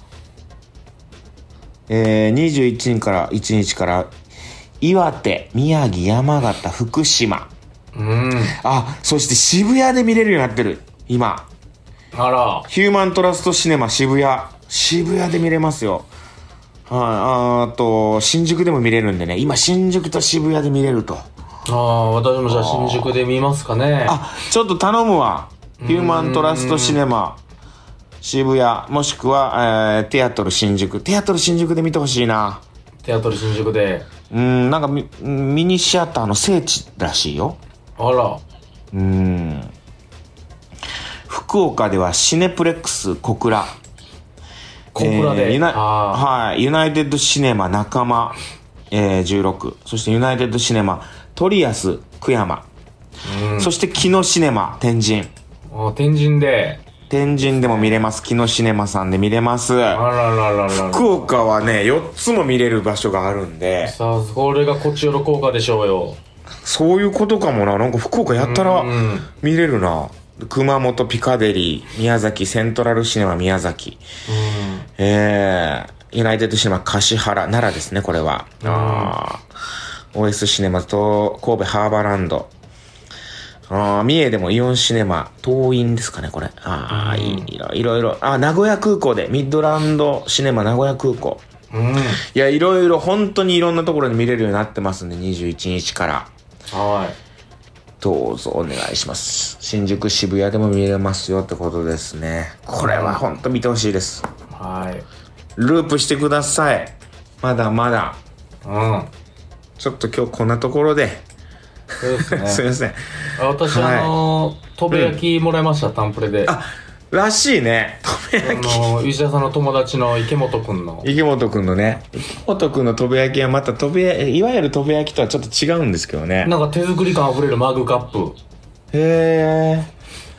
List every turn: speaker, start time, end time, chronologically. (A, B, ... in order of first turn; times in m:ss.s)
0:01.9-0:04.1 A
0:04.8-0:07.5 A
0:07.9-0:08.6 B
0:08.5-0:11.5 A
0:12.1-0:12.7 B
0:12.7-0:16.1 A
0:16.9-0:21.3 A
0:21.6-0:24.2 B
0:22.5-0:23.2 A
0:24.0-0:27.4 A
0:25.8-0:27.0 B
0:28.2-0:32.6 A
0:33.0-0:34.1 B
0:34.3-0:37.6 A
0:38.0-0:38.4 B
0:38.9-0:39.7 A
0:41.3-0:43.8 A
0:44.9-0:46.2 B
0:44.9-0:48.4 A
0:48.9-0:52.6 A
0:53.2-0:53.7 B
0:53.6-0:55.3 A
0:55.7-0:56.8 B
0:57.1-1:00.0 A
0:57.4-0:58.0 B
0:59.9-1:01.1 B
1:00.7-1:04.0 A
1:03.8-1:06.2 B
1:06.6-1:14.0 A
1:08.3-1:09.3 B
1:14.3-1:14.9 B
1:15.0-1:19.5 A
1:18.6-1:19.1 B
1:20.1-1:22.5 A
1:23.7-1:31.4 A
1:26.9-1:27.5 B
1:31.7-1:32.2 B
1:32.2-1:36.3 A
1:36.7-1:37.2 B
1:38.0-1:44.3 A
1:42.8-1:43.2 B
1:44.5-1:45.0 B
1:45.6-1:48.2 A
1:48.6-1:49.1 B
1:49.8-1:51.2 A
1:52.0-1:52.6 B
1:52.2-1:54.1 A
1:53.4-1:56.5 B
1:54.9-1:55.2 A
1:56.4-1:58.9 A
1:58.4-2:01.1 B
2:01.0-2:06.5 A
2:06.4-2:08.4 B
2:08.9-2:09.9 A